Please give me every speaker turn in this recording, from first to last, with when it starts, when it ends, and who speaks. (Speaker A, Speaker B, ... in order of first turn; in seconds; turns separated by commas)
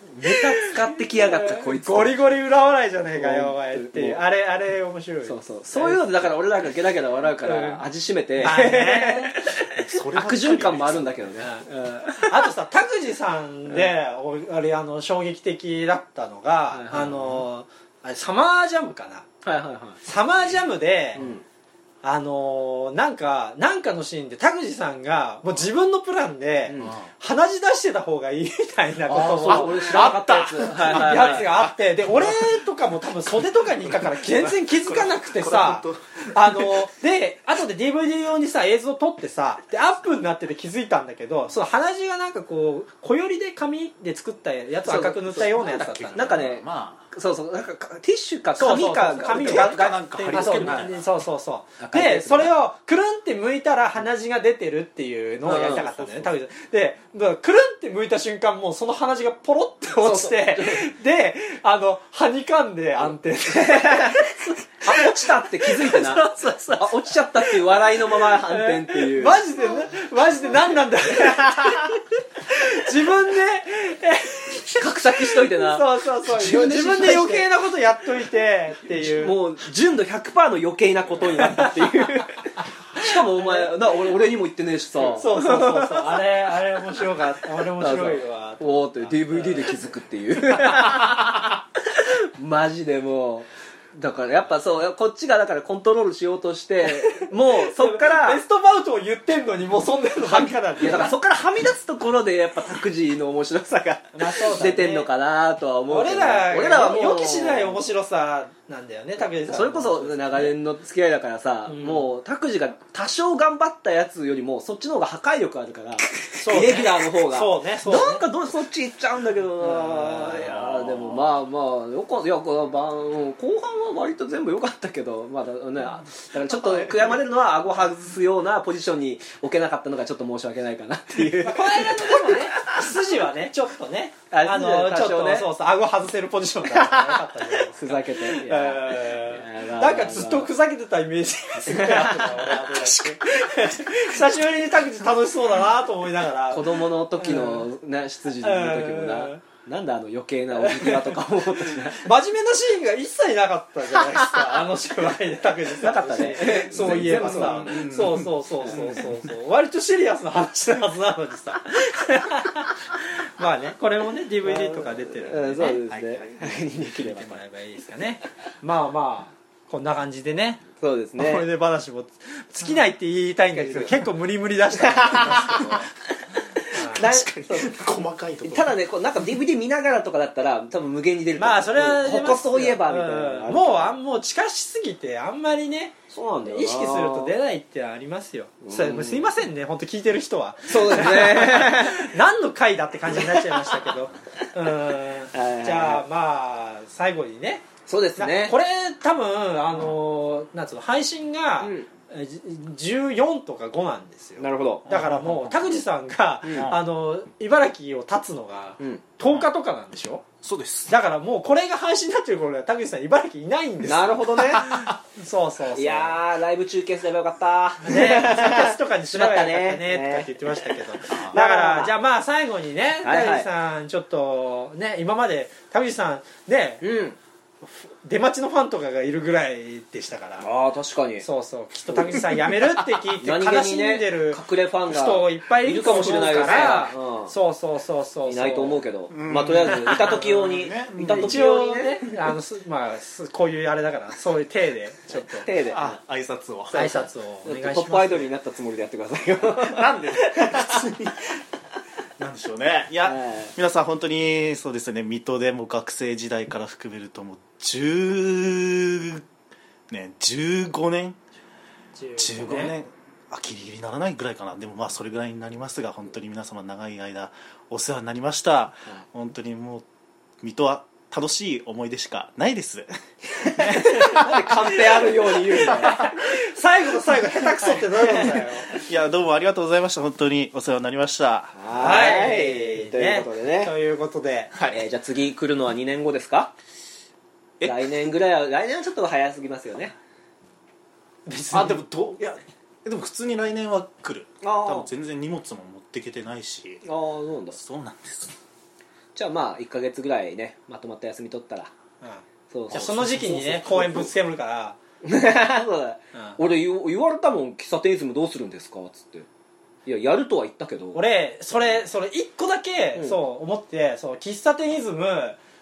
Speaker A: 0.1-2.2, Speaker B: 0.2-6.0, Speaker A: 3.1-4.2, Speaker A: 5.2-12.5, Speaker B: 7.4-9.4, Speaker C: 9.7-11.4, Speaker B: 12.2-19.3, Speaker A: 16.7-17.1, Speaker C: 17.1-17.4, Speaker A: 19.4-20.0, Speaker B: 20.0-21.2, Speaker A: 21.2-21.4, Speaker B: 22.0-46.4, Speaker A: 26.7-27.0, Speaker C: 26.8-27.1, Speaker C: 29.1-32.7, Speaker A: 29.1-31.5, Speaker C: 33.4-36.9, Speaker A: 44.8-45.5, Speaker C: 45.4-47.1, Speaker A: 46.1-49.8, Speaker B: 48.6-79.4, Speaker C: 49.2-51.0, Speaker A: 50.3-50.9, Speaker A: 51.8-52.5, Speaker A: 55.4-55.9, Speaker C: 55.5-56.3, Speaker A: 60.0-60.9, Speaker A: 63.5-66.2, Speaker A: 66.8-69.4, Speaker A: 71.3-71.8, Speaker A: 74.8-77.5, Speaker A: 78.9-86.2, Speaker B: 81.4-82.3, Speaker B: 83.0-83.8, Speaker B: 85.1-89.8, Speaker A: 87.8-98.4, Speaker B: 90.7-91.0, Speaker B: 96.8-101.1, Speaker A: 100.3-107.8, Speaker B: 104.1-105.1, Speaker B: 105.9-110.5, Speaker A: 109.5-132.8, Speaker B: 111.7-112.1, Speaker B: 116.4-118.2, Speaker B: 119.7-120.3, Speaker C: 120.3-121.3, Speaker B: 131.4-147.7, Speaker A: 134.3-135.5, Speaker A: 136.8-137.2, Speaker A: 137.7-140.5, Speaker A: 141.6-142.7, Speaker C: 142.8-144.0, Speaker A: 146.5-152.1, Speaker B: 148.4-149.4, Speaker B: 150.6-165.8, Speaker A: 155.8-159.0, Speaker C: 156.7-159.3, Speaker A: 164.4-167.4, Speaker C: 165.6-166.6, Speaker B: 166.9-175.9, Speaker A: 170.8-171.5, Speaker A: 173.5-174.0, Speaker A: 174.7-175.9, Speaker A: 176.6-177.8, Speaker B: 176.7-177.1, Speaker C: 176.9-178.8, Speaker A: 178.4-183.9, Speaker B: 181.4-210.2, Speaker A: 186.1-187.3, Speaker A: 188.6-189.3, Speaker A: 190.7-192.1, Speaker A: 193.1-193.9, Speaker A: 195.3-196.0, Speaker A: 197.9-198.6, Speaker A: 201.6-201.9, Speaker A: 204.4-204.9, Speaker C: 204.9-205.8, Speaker A: 206.4-206.7, Speaker C: 210.4-210.9, Speaker B: 210.9-216.2, Speaker A: 213.8-214.8, Speaker C: 214.5-214.9, Speaker A: 215.7-221.9, Speaker B: 217.8-226.8, Speaker C: 221.1-221.4, Speaker A: 223.0-223.5, Speaker A: 226.8-227.2, Speaker B: 228.0-230.5, Speaker A: 230.4-231.3, Speaker B: 231.2-238.8, Speaker A: 231.9-232.5, Speaker A: 233.1-237.3, Speaker A: 238.3-242.0, Speaker C: 239.1-241.4, Speaker B: 241.1-245.5, Speaker A: 245.3-246.0, Speaker C: 245.7-247.0, Speaker B: 246.7-248.3, Speaker A: 246.7-250.9, Speaker C: 249.5-251.4, Speaker C: 252.2-259.2, Speaker A: 253.0-253.5, Speaker C: 259.9-261.2, Speaker B: 261.9-262.7, Speaker C: 262.1-269.8, Speaker C: 270.4-272.9, Speaker A: 273.3-276.1, Speaker C: 273.4-274.2, Speaker B: 274.7-278.7, Speaker C: 275.7-276.1, Speaker C: 277.2-281.9, Speaker A: 281.5-283.7, Speaker B: 281.8-284.5, Speaker C: 284.5-284.8, Speaker A: 284.7-286.5, Speaker A: 287.6-289.9, Speaker B: 291.2-292.3, Speaker C: 291.5-296.8, Speaker A: 294.4-294.9, Speaker A: 296.8-297.6, Speaker C: 297.5-298.3, Speaker A: 299.1-301.7, Speaker B: 302.0-304.8, Speaker A: 302.5-302.9, Speaker C: 302.7-304.1, Speaker A: 305.0-309.3, Speaker A: 309.9-311.0, Speaker B: 310.9-315.4